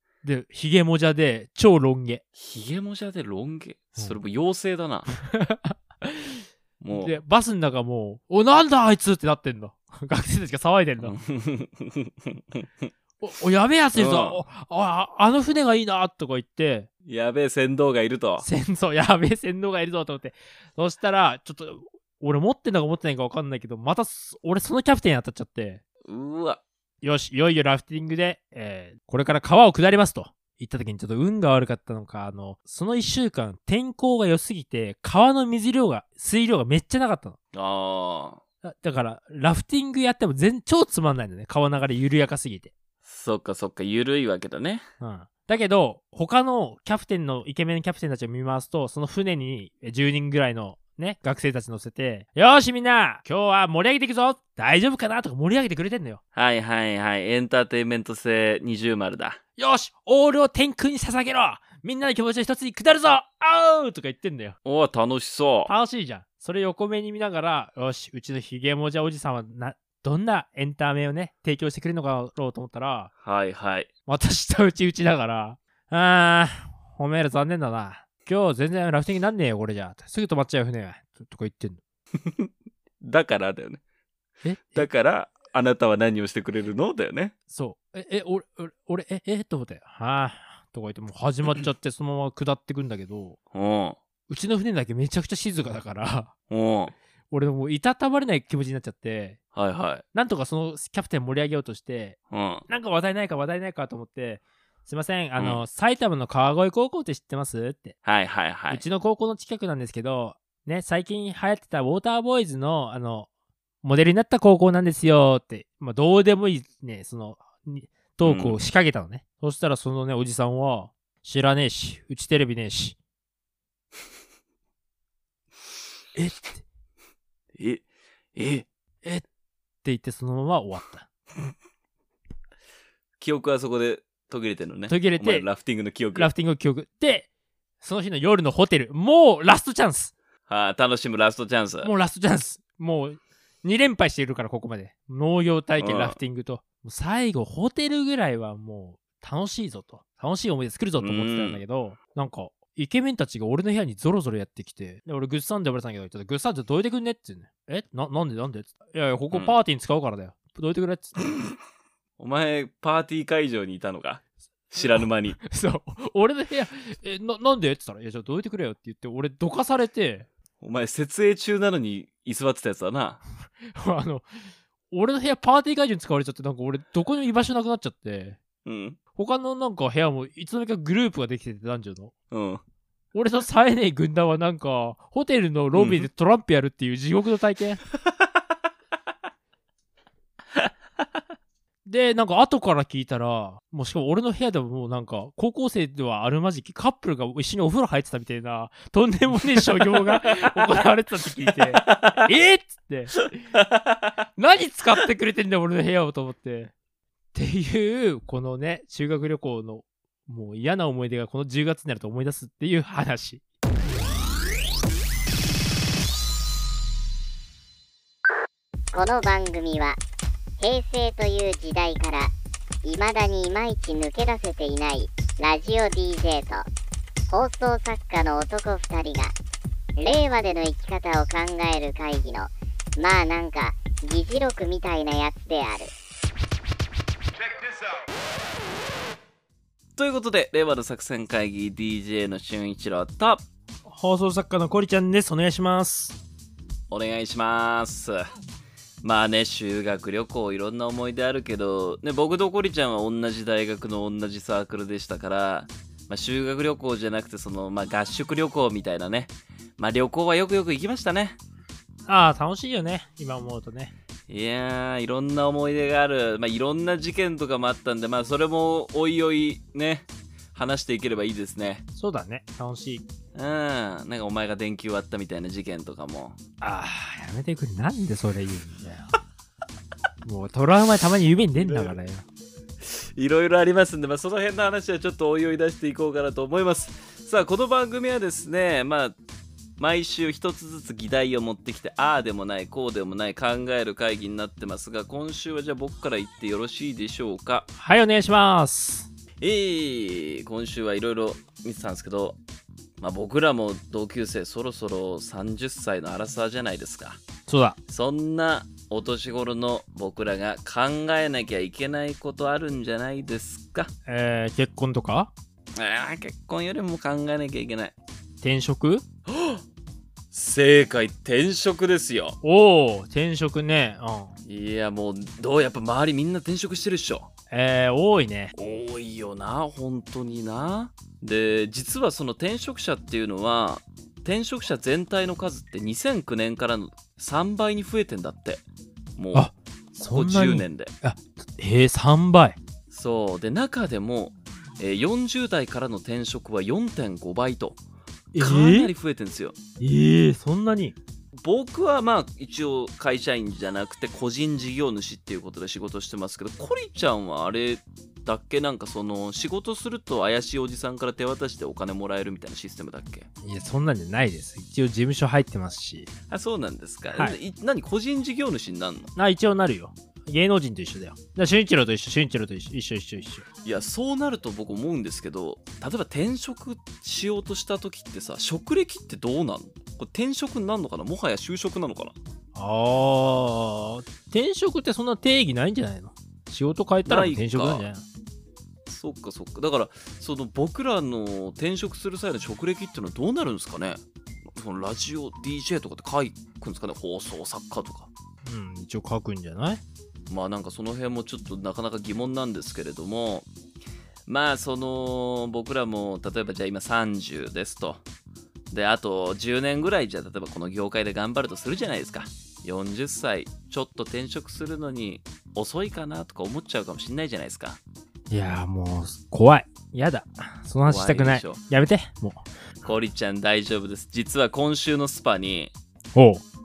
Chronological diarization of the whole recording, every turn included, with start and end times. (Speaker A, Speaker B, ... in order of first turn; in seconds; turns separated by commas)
Speaker A: 0.2-2.2, Speaker B: 2.4-5.2, Speaker A: 5.2-11.1, Speaker B: 6.8-7.1, Speaker B: 11.0-12.9, Speaker A: 13.2-16.9, Speaker B: 13.9-14.4, Speaker B: 17.0-18.4, Speaker A: 18.4-25.8, Speaker B: 26.0-26.6, Speaker A: 27.0-37.4, Speaker B: 37.5-38.4, Speaker A: 38.6-42.7, Speaker B: 43.0-44.8, Speaker A: 45.0-56.2, Speaker B: 56.3-59.4, Speaker A: 59.6-64.5, Speaker B: 64.6-65.7, Speaker A: 65.7-73.1, Speaker B: 73.2-73.9, Speaker A: 74.1-81.8, Speaker B: 82.2-82.5, Speaker B: 83.0-83.8, Speaker A: 84.4-84.9, Speaker B: 84.7-87.3, Speaker A: 87.5-93.4, Speaker B: 93.5-94.0, Speaker A: 94.3-96.3, Speaker B: 96.5-96.9, Speaker A: 97.3-99.4, Speaker B: 99.5-100.0, Speaker A: 100.1-102.2, Speaker B: 102.3-102.6, Speaker A: 102.7-108.0, Speaker B: 105.4-105.6, Speaker B: 108.0-108.8, Speaker A: 108.7-113.3, Speaker A: 113.8-123.0, Speaker B: 118.2-118.6, Speaker A: 126.1-126.6, Speaker B: 127.5-127.8, Speaker B: 128.3-128.7, Speaker A: 129.8-131.1, Speaker B: 133.2-136.3, Speaker A: 134.9-135.5, Speaker A: 136.1-137.3, Speaker A: 137.8-140.1, Speaker B: 140.5-141.9, Speaker A: 141.8-161.4, Speaker B: 145.8-146.2, Speaker B: 151.0-151.6, Speaker B: 162.2-165.4, Speaker A: 165.4-170.3, Speaker B: 170.6-173.2, Speaker A: 173.7-174.3, Speaker A: 174.9-178.4, Speaker B: 178.6-179.0, Speaker A: 179.1-182.1, Speaker B: 182.3-182.6, Speaker A: 183.1-187.8, Speaker B: 185.7-186.1, Speaker A: 191.8-203.5, Speaker B: 199.7-200.4, Speaker B: 201.8-202.3, Speaker B: 203.6-204.0, Speaker A: 204.4-206.7, Speaker A: 207.3-213.4, Speaker C: 218.9-220.0, Speaker C: 220.6-222.3, Speaker C: 222.8-226.7, Speaker C: 227.3-229.3, Speaker C: 230.0-235.9, Speaker B: 239.9-243.4, Speaker A: 243.8-246.2, Speaker B: 246.9-248.3, Speaker B: 249.0-261.4, Speaker A: 262.1-263.9, Speaker B: 264.3-271.8, Speaker A: 271.9-273.1, Speaker B: 273.3-276.4, Speaker A: 276.6-279.1, Speaker A: 280.2-282.2, Speaker B: 281.6-281.9, Speaker B: 282.8-289.2, Speaker B: 289.8-297.7, Speaker A: 297.8-299.1, Speaker B: 299.4-302.4, Speaker B: 303.0-307.2, Speaker A: 307.5-307.8, Speaker B: 307.9-313.9, Speaker A: 314.1-315.3, Speaker B: 315.8-317.9, Speaker A: 318.4-319.0, Speaker B: 319.3-319.6, Speaker B: 320.3-322.4, Speaker A: 322.4-324.3, Speaker B: 324.4-327.3, Speaker A: 327.5-328.5, Speaker B: 328.5-338.6, Speaker B: 339.2-339.5, Speaker A: 339.3-342.6, Speaker B: 340.1-340.9, Speaker B: 342.9-347.8, Speaker A: 348.3-348.9, Speaker B: 348.4-349.6, Speaker A: 349.8-350.9, Speaker B: 351.4-363.3, Speaker A: 363.4-366.1, Speaker B: 366.3-369.1, Speaker A: 369.1-373.4, Speaker B: 373.6-382.1, Speaker A: 382.5-388.0, Speaker B: 387.1-387.8, Speaker B: 388.9-398.1, Speaker A: 398.4-399.8, Speaker B: 400.3-403.5, Speaker B: 404.2-408.0, Speaker B: 408.7-417.8, Speaker A: 418.3-422.4, Speaker B: 420.9-421.6, Speaker B: 422.8-425.7, Speaker A: 426.1-426.4